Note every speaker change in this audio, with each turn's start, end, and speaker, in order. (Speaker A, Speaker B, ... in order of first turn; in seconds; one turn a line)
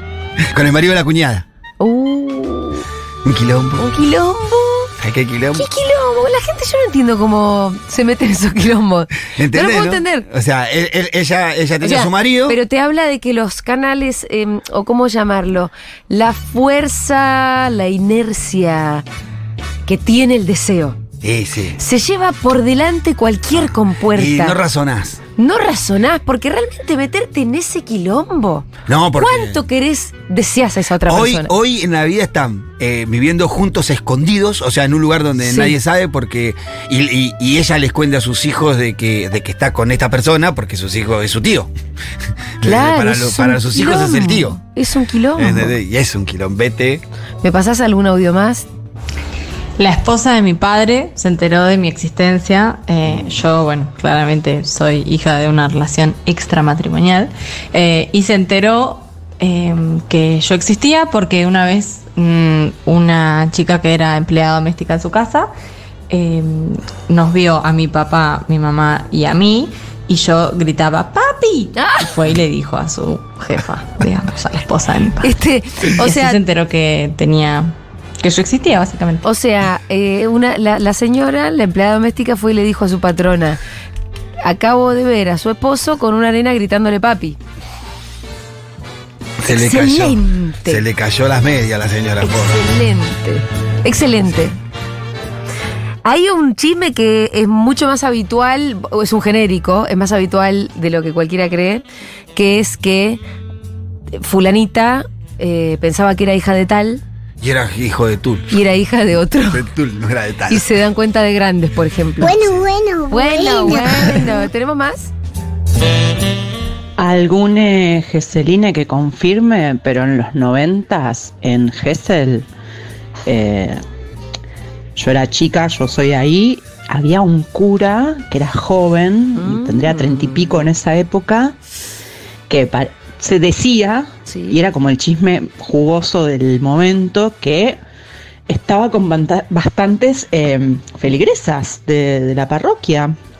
Speaker A: 0.5-1.4
Speaker B: 1.8-2.8
Speaker A: 3.2-3.8
Speaker B: 3.8-4.9
Speaker A: 5.0-5.7
Speaker B: 5.5-10.2
Speaker A: 9.4-12.6
Speaker B: 11.8-19.0
Speaker B: 19.9-21.0
Speaker A: 21.2-21.8
Speaker B: 21.8-24.6
Speaker A: 23.5-25.2
Speaker B: 25.4-31.5
Speaker A: 28.9-29.6
Speaker A: 31.1-41.7
Speaker B: 35.4-35.7
Speaker A: 42.6-44.6
Speaker B: 42.6-45.7
Speaker A: 45.4-47.0
Speaker B: 47.4-48.7
Speaker C: 49.8-65.5
Speaker A: 53.1-53.4
Speaker C: 66.1-75.3
Speaker B: 71.8-72.0
Speaker B: 75.2-76.4
Speaker C: 75.9-79.2
Speaker B: 79.2-83.6
Speaker B: 84.4-87.4
Speaker A: 89.4-92.5
Speaker B: 89.5-90.8
Speaker B: 92.2-94.5
Speaker B: 96.0-101.8
Speaker B: 102.3-103.2
Speaker B: 104.2-107.0
Speaker A: 107.4-108.5
Speaker B: 108.5-109.7
Speaker A: 109.5-110.6
Speaker B: 110.5-112.6
Speaker D: 112.2-114.2
Speaker B: 113.1-115.1
Speaker E: 117.0-122.5
Speaker E: 123.2-123.8
Speaker E: 125.0-131.6
Speaker B: 129.4-130.6
Speaker E: 132.5-137.8
Speaker B: 134.2-134.6
Speaker E: 138.5-143.2